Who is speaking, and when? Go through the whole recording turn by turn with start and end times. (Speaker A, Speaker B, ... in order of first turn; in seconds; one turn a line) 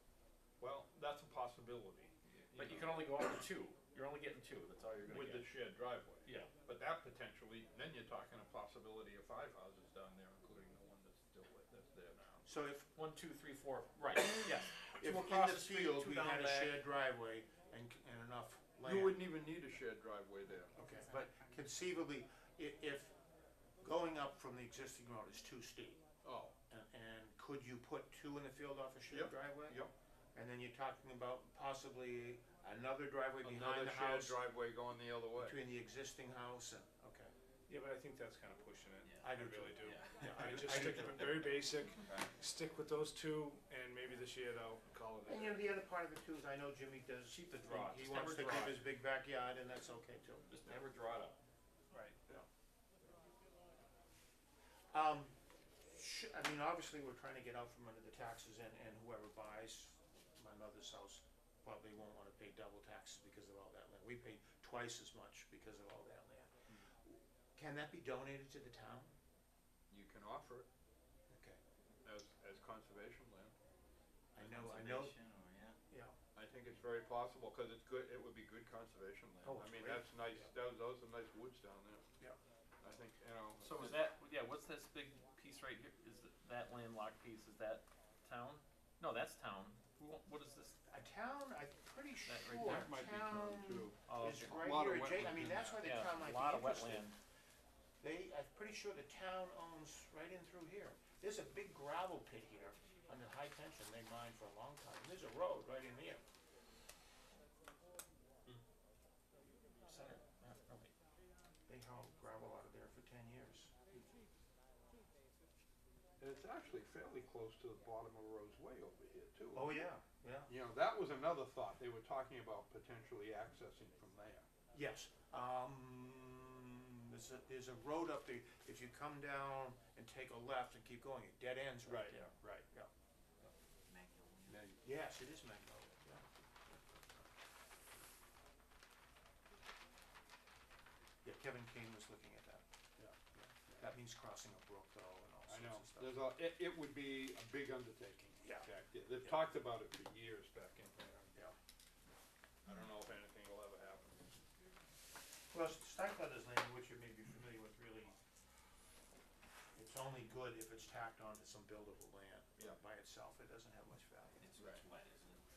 Speaker A: 0.6-3.2
Speaker B: 2.5-5.5
Speaker A: 5.0-12.4
Speaker B: 6.2-6.5
Speaker C: 12.4-12.9
Speaker B: 12.9-16.8
Speaker C: 15.0-19.2
Speaker A: 15.0-15.7
Speaker A: 18.8-20.7
Speaker C: 20.7-23.1
Speaker C: 23.8-26.0
Speaker A: 26.2-26.5
Speaker C: 26.7-29.8
Speaker A: 29.1-29.9
Speaker C: 30.3-34.4
Speaker A: 33.4-35.6
Speaker C: 35.4-37.3
Speaker D: 37.7-45.6
Speaker C: 39.2-41.5
Speaker E: 39.8-40.2
Speaker E: 41.1-42.3
Speaker C: 45.2-50.5
Speaker B: 47.3-48.8
Speaker B: 50.5-51.4
Speaker C: 54.9-69.1
Speaker A: 69.9-70.7
Speaker C: 71.3-71.6
Speaker A: 72.0-73.5
Speaker C: 74.3-75.1
Speaker E: 74.4-75.8
Speaker C: 75.9-76.2
Speaker A: 76.3-82.0
Speaker C: 79.4-80.4
Speaker A: 82.8-84.0
Speaker B: 83.6-90.8
Speaker C: 90.9-97.1
Speaker B: 92.2-92.9
Speaker A: 92.6-95.8
Speaker B: 94.0-94.5
Speaker B: 95.8-97.2
Speaker C: 98.0-106.2
Speaker B: 109.9-110.9
Speaker C: 109.9-110.2
Speaker C: 111.7-113.7
Speaker A: 116.2-119.8
Speaker C: 119.5-120.5
Speaker A: 120.5-124.5
Speaker C: 124.7-132.9
Speaker A: 131.8-132.6
Speaker E: 133.9-134.6
Speaker A: 134.5-134.8
Speaker C: 134.8-136.2
Speaker C: 141.2-142.6
Speaker C: 143.3-146.3
Speaker A: 145.5-151.3
Speaker C: 148.4-148.7
Speaker A: 152.7-154.3
Speaker C: 155.5-158.2
Speaker C: 159.7-164.5
Speaker E: 164.4-165.4
Speaker A: 164.6-164.8